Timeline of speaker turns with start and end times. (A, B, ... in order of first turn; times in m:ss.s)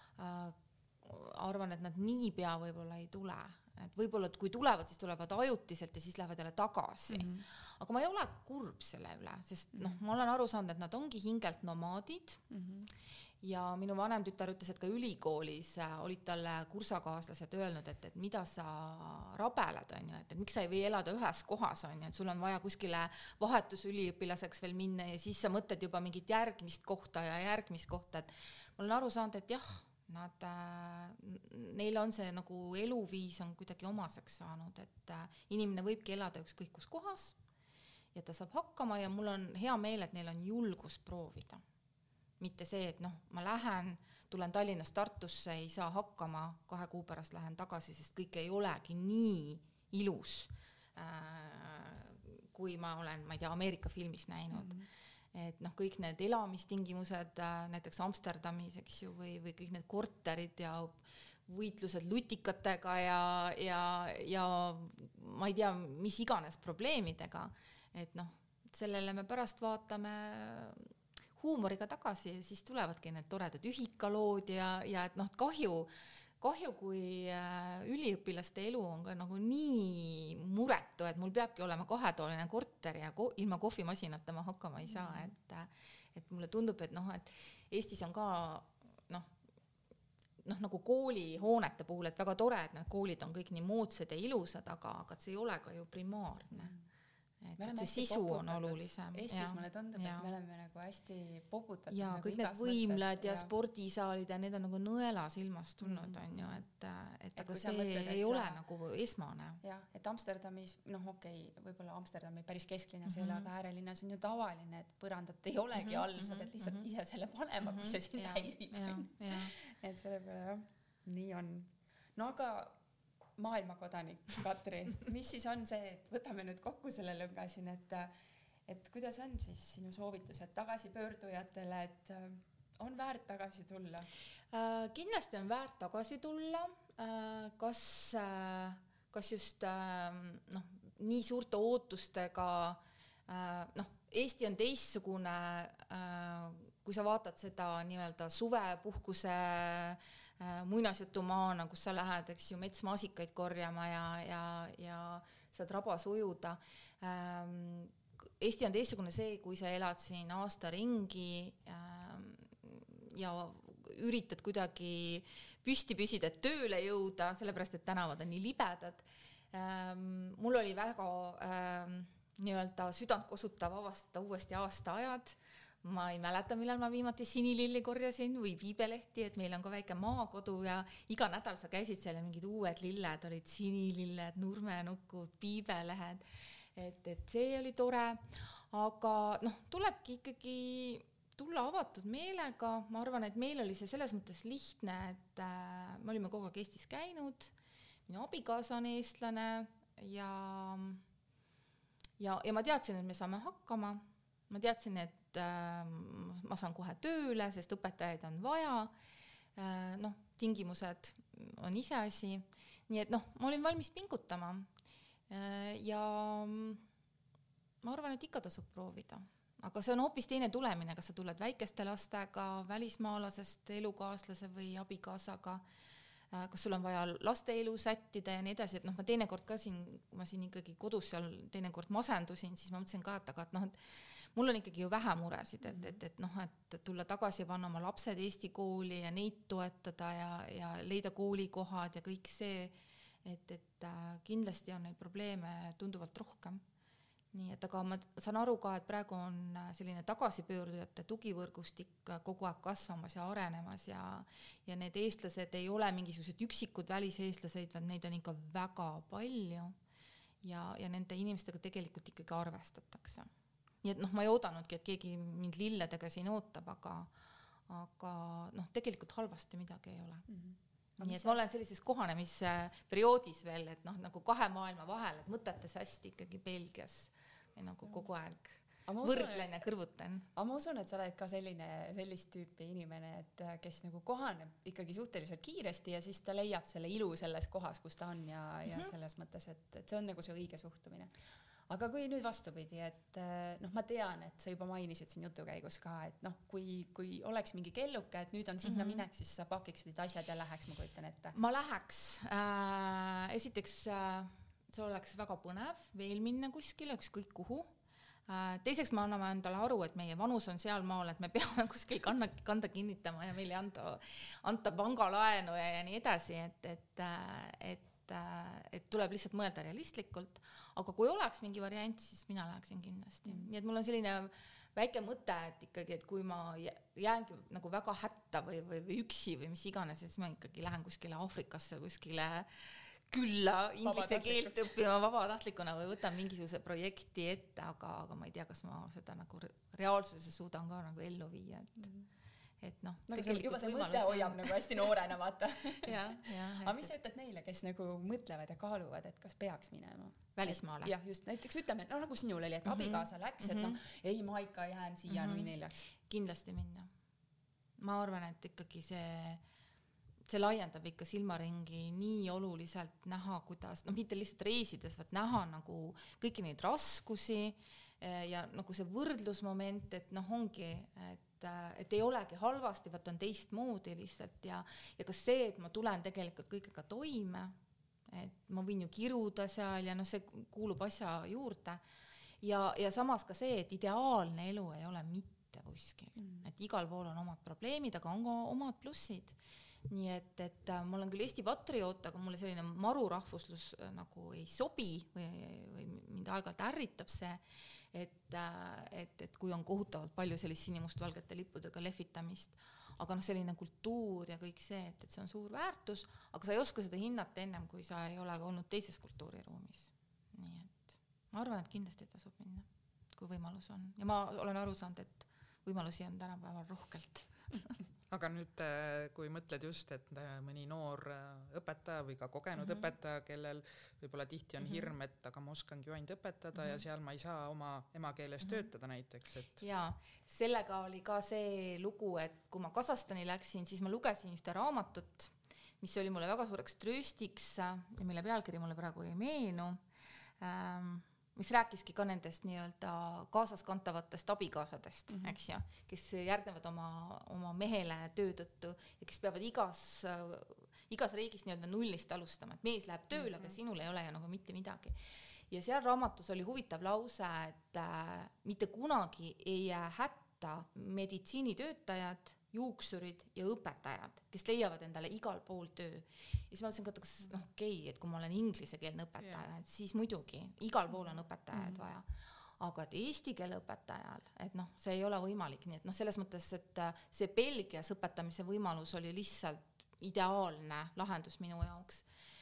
0:00.2-0:12.4 A
0:07.1-0:07.4 B
0:12.5-0:12.9 B
0:13.4-0:37.4 A
0:38.1-0:41.6 A
0:42.4-0:54.8 A
0:54.5-0:54.9 B
0:55.3-1:29.3 A
1:30.4-1:36.7 A
1:36.5-1:36.8 B
1:37.4-1:40.3 A
1:37.6-1:43.5 B
1:41.9-1:49.6 A
1:45.8-1:46.5 B
1:47.4-1:48.6 B
1:49.6-2:02.8 B
1:53.0-1:53.5 A
1:55.8-1:56.8 A
1:57.6-1:59.5 A
2:03.4-2:08.1 B
2:08.7-2:14.1 B
2:14.5-3:17.5 A
3:18.1-3:21.0 A
3:22.2-3:28.9 A
3:29.6-3:34.7 A
3:35.3-3:36.8 A
3:37.8-3:45.6 A
3:46.3-4:06.6 A
3:55.6-3:56.0 B
4:07.3-4:19.8 A
4:20.4-4:23.3 A
4:23.8-4:27.1 A
4:27.7-4:30.3 A
4:30.3-4:31.4 B
4:31.0-4:40.3 A
4:38.8-4:39.5 B
4:40.3-4:51.1 B
4:51.7-5:01.4 B
4:58.6-4:59.0 A
5:01.3-5:07.7 A
5:08.3-5:41.9 A
5:33.8-5:34.7 B
5:42.6-5:44.8 A
5:43.1-5:55.9 B
5:45.8-5:46.9 A
5:50.4-5:50.9 A
5:52.7-5:53.8 A
5:55.1-5:55.5 A
5:56.0-5:56.9 A
5:57.8-5:59.4 A
6:00.3-6:17.6 A
6:18.1-6:21.8 A
6:22.4-6:57.7 A
6:26.2-6:26.4 B
6:58.1-7:09.6 C
7:02.6-7:02.9 A
7:04.6-7:04.9 A
7:09.6-7:19.8 A
7:20.4-8:02.0 A
7:25.1-7:25.4 B